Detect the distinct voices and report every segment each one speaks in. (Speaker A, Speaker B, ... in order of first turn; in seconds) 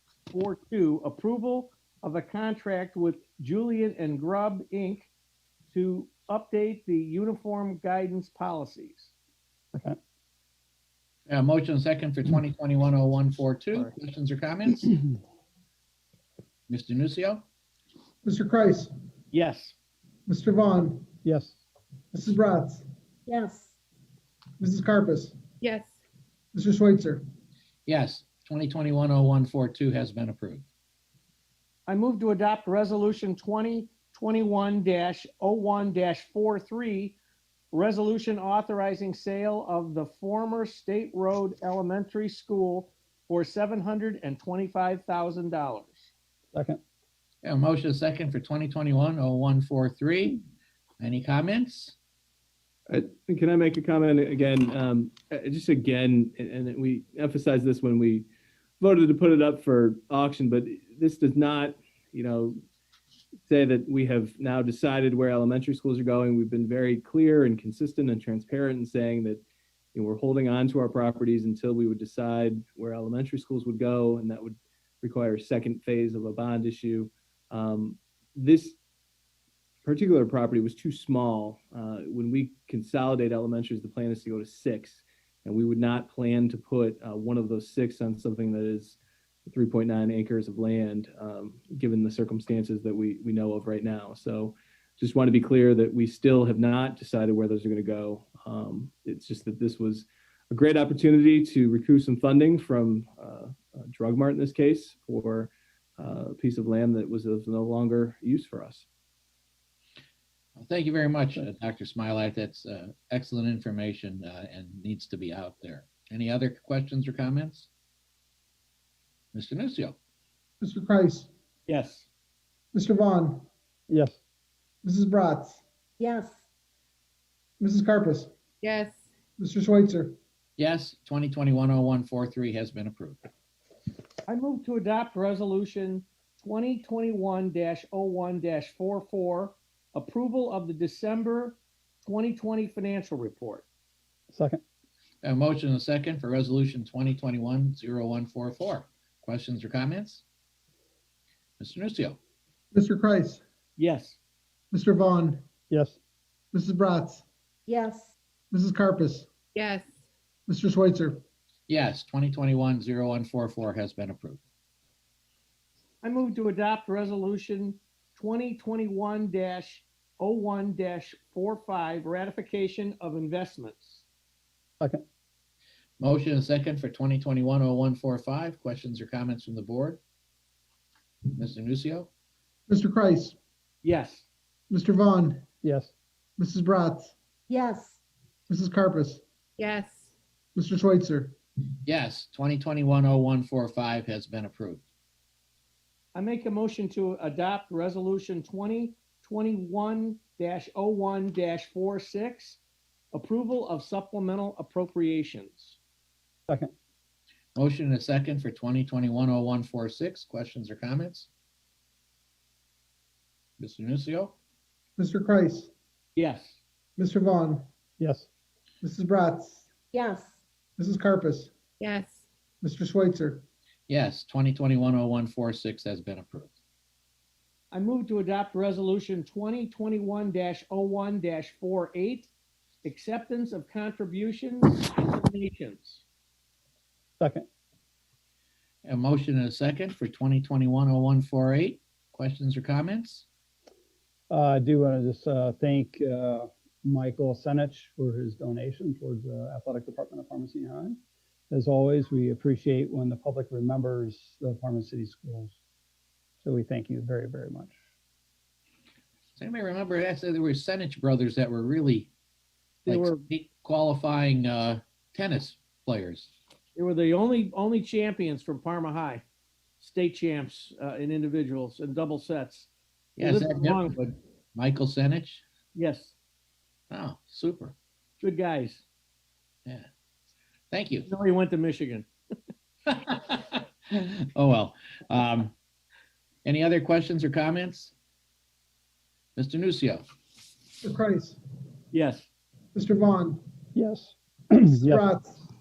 Speaker A: 0.3-5.1, 5.7-9.1, 19.3-19.7, 31.9-37.2, 37.7-46.1, 121.7-122.1, 134.3-143.7, 153.8-154.2, 166.0-174.0, 183.8-184.2, 196.1-202.6, 203.1-205.8, 216.2-216.6, 227.7-232.3, 232.8-236.0, 262.9-263.2, 266.8-269.2, 269.8-273.9, 275.7-276.1, 278.2-278.8, 281.1-282.1, 291.9-292.3
Speaker B: 11.3-14.9, 16.7-17.4, 27.9-30.6, 47.4-50.4, 51.0-51.9, 110.6-117.7, 119.3-120.0, 130.6-133.2, 145.2-150.2, 151.6-152.2, 161.7-164.4, 176.0-180.0, 181.3-182.1, 191.8-194.8, 207.5-211.3, 213.6-214.3, 223.9-226.5, 238.8-243.2, 259.4-262.1, 262.9-266.3, 273.2-275.4, 276.9-277.7, 280.7-281.1, 282.9-283.3, 283.9-285.5, 286.4-287.9, 289.4-290.0
Speaker C: 18.2-18.9, 20.3-21.1, 22.1-22.8, 24.6-25.3, 26.5-27.2, 120.6-121.3, 122.7-123.5, 124.8-125.6, 127.6-128.3, 129.4-130.2, 152.7-153.4, 154.7-155.4, 156.5-157.2, 158.5-159.3, 160.5-161.2, 182.7-183.3, 184.7-185.4, 186.4-187.1, 188.5-189.2, 190.5-191.3, 215.0-215.7, 217.0-217.7, 218.8-219.7, 220.8-221.5, 222.6-223.4, 290.8-291.4, 292.7-293.4, 294.7-295.4
Speaker D: 21.2-21.6, 46.5-46.8, 123.9-124.2, 144.3-144.6, 155.7-156.0, 185.6-185.9, 218.0-218.3, 237.2-237.4, 244.3-251.0, 251.5-255.6, 256.4-257.7, 293.7-295.1
Speaker E: 23.3-23.7, 126.0-126.3, 157.7-158.1, 187.5-187.9, 219.9-220.3
Speaker F: 25.6-25.9, 128.6-129.0, 159.5-159.9, 189.6-190.1, 221.8-222.2
Speaker G: 52.9-58.3, 58.8-62.6, 63.5-69.4, 69.9-78.8, 79.8-108.8